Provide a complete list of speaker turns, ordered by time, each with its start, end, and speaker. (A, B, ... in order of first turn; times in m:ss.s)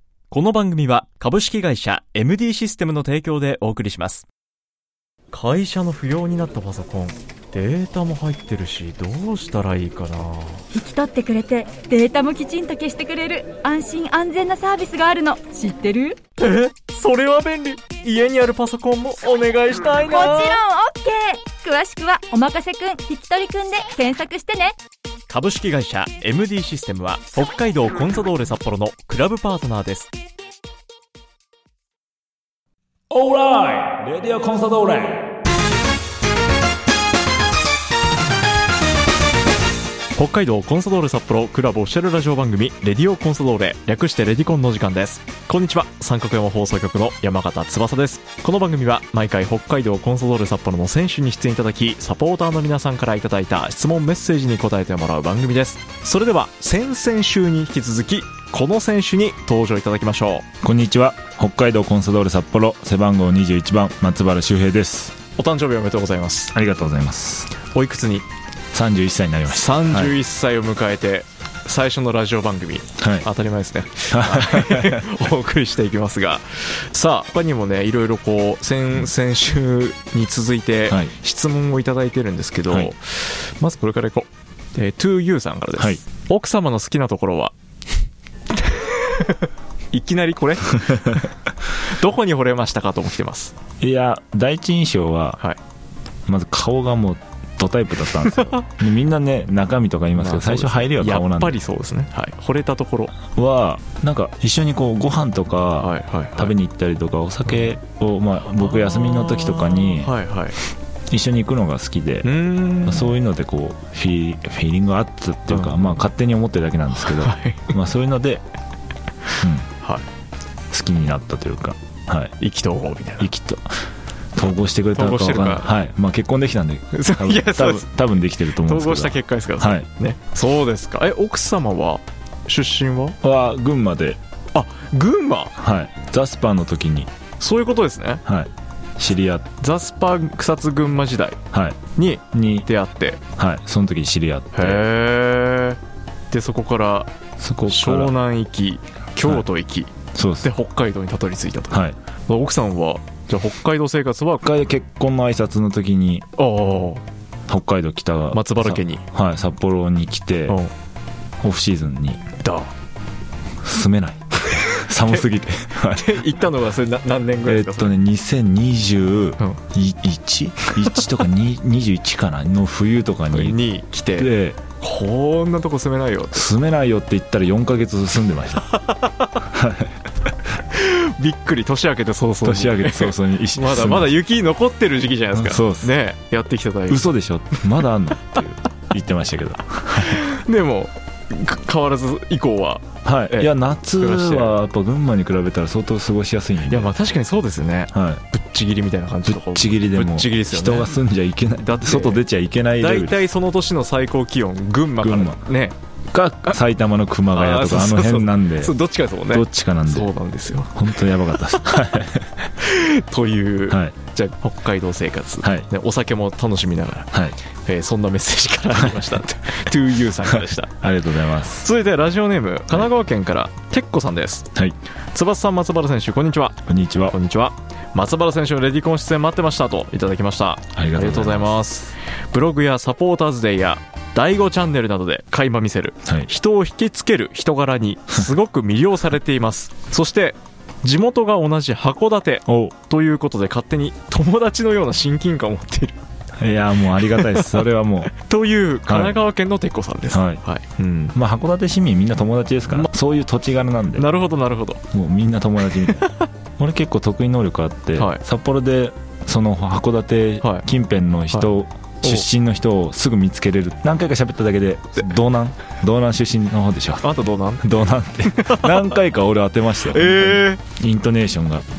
0:00.3-0:04.3 A
0:05.3-0:10.7 A
0:10.7-0:16.2 B
0:16.4-0:20.6 A
0:20.1-0:24.8 B
0:25.3-0:30.1 A
0:33.1-0:35.3 C
0:40.2-1:00.5 A
1:00.6-1:05.2 C
1:05.4-1:06.5 A
1:06.5-1:07.5 C
1:07.6-1:08.3 A
1:08.7-1:10.2 C
1:09.5-1:27.5 A
1:13.0-1:13.3 C
1:14.1-1:15.0 C
1:28.5-1:33.6 A
1:30.9-1:31.2 C
1:33.8-1:35.4 C
1:36.3-1:41.6 C
1:40.1-1:43.2 A
1:43.3-1:50.1 C
1:45.8-1:46.5 A
1:48.6-1:50.6 A
1:51.1-1:58.4 C
1:52.2-1:53.1 A
1:55.5-1:56.0 A
1:57.0-1:57.7 A
1:59.4-1:59.7 C
2:00.7-2:02.3 C
2:02.4-2:03.3 A
2:03.2-2:03.7 C
2:04.4-2:09.9 C
2:04.9-2:05.7 A
2:06.9-2:07.9 A
2:08.6-2:13.2 A
2:13.2-2:14.2 C
2:14.5-2:15.6 A
2:15.6-2:17.1 C
2:17.4-2:18.2 A
2:18.3-2:19.5 C
2:19.6-2:21.4 A
2:21.5-2:21.8 C
2:22.0-2:23.2 A
2:22.3-2:22.7 C
2:23.4-2:24.8 C
2:24.5-2:25.8 A
2:26.3-2:27.1 A
2:27.4-2:28.2 C
2:27.7-2:29.9 A
2:30.2-2:30.5 C
2:30.4-2:34.5 A
2:31.7-2:32.0 C
2:34.4-2:36.3 C
2:36.4-2:37.0 A
2:37.5-2:40.6 C
2:38.3-2:39.0 A
2:40.5-2:40.7 A
2:41.4-2:42.2 C
2:42.4-2:42.7 A
2:43.6-2:46.2 C
2:44.4-2:45.2 A
2:45.9-2:48.0 A
2:47.4-2:53.6 C
2:53.3-2:56.5 A
2:54.2-2:54.6 C
2:56.3-2:58.7 C
2:58.7-2:59.4 A
2:59.4-3:00.0 C
3:00.7-3:07.1 A
3:02.4-3:04.1 C
3:05.3-3:05.9 C
3:06.9-3:10.2 C
3:10.0-3:14.5 A
3:13.0-3:16.9 C
3:16.7-3:20.9 A
3:17.9-3:18.2 C
3:19.2-3:23.2 C
3:21.5-3:22.2 A
3:22.8-3:25.8 A
3:25.0-3:25.4 C
3:26.1-3:28.7 C
3:27.3-3:31.8 A
3:29.3-3:30.1 C
3:30.7-3:32.4 C
3:32.6-3:37.1 A
3:33.7-3:33.9 C
3:35.4-3:35.7 C
3:37.1-3:37.4 C
3:37.6-3:40.7 A
3:40.3-3:41.7 C
3:41.6-3:44.5 A
3:45.1-4:06.0 A
3:46.7-3:47.2 C
3:50.8-3:51.6 C
4:02.5-4:02.7 C
4:06.4-4:08.1 C
4:07.0-4:11.2 A
4:08.9-4:09.2 C
4:10.1-4:10.4 C
4:11.1-4:14.1 C
4:14.0-4:14.8 A
4:14.9-4:16.1 C
4:15.6-4:16.3 A
4:16.6-4:27.1 C
4:18.0-4:18.2 A
4:27.0-4:27.7 A
4:27.6-4:31.6 C
4:28.2-4:29.0 A
4:29.8-4:30.6 A